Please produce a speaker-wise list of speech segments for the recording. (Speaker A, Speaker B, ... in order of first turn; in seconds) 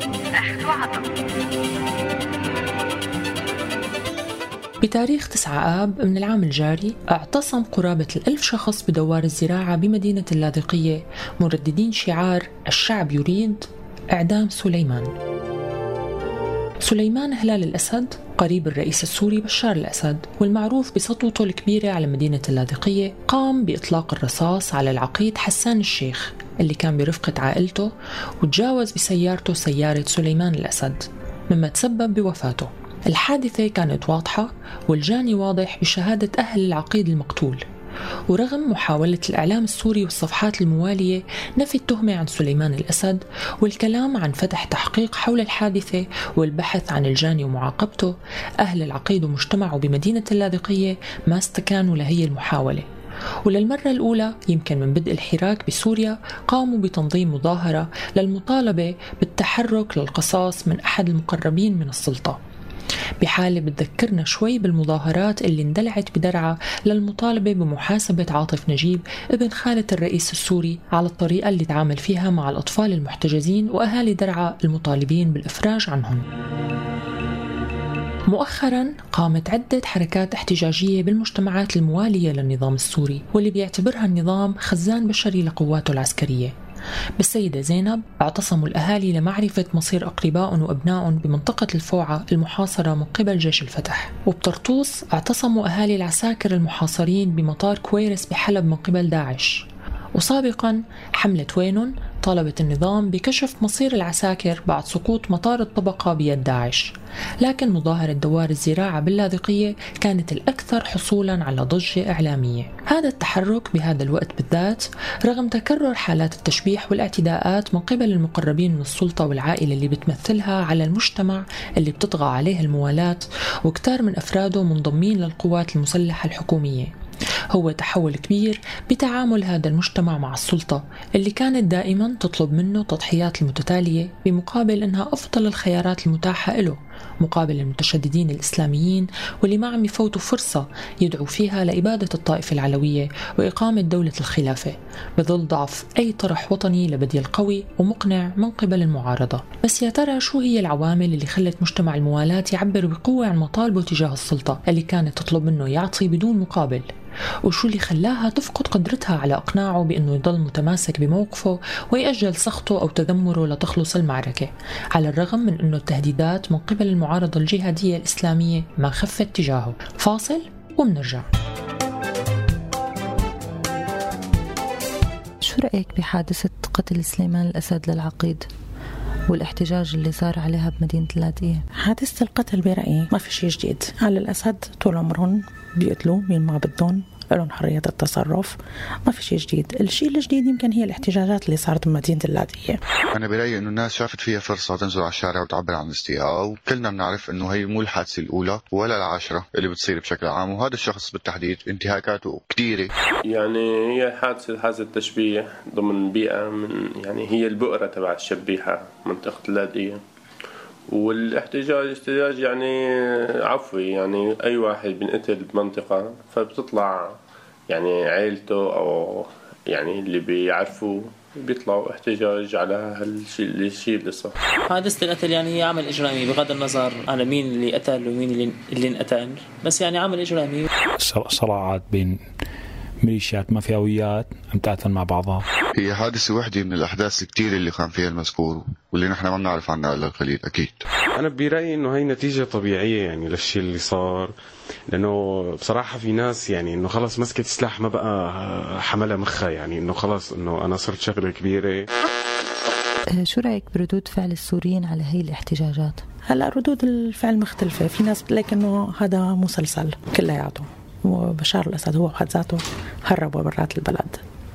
Speaker A: 4.8-15.1, 16.8-27.9, 28.4-37.6, 38.3-52.8, 53.4-62.4, 63.2-76.2, 78.3-86.5, 87.2-99.6, 100.2-126.9, 127.5-156.8, 157.4-171.3
Speaker B: 175.4-178.5, 179.3-181.6, 253.1-256.0
Speaker C: 181.8-192.8, 256.3-264.2
Speaker D: 193.1-202.9, 235.8-240.8
Speaker E: 203.3-210.0, 210.9-217.1, 217.7-224.4
Speaker F: 224.7-230.7
Speaker G: 231.0-232.2, 233.0-235.4
Speaker H: 241.1-244.3, 244.9-251.9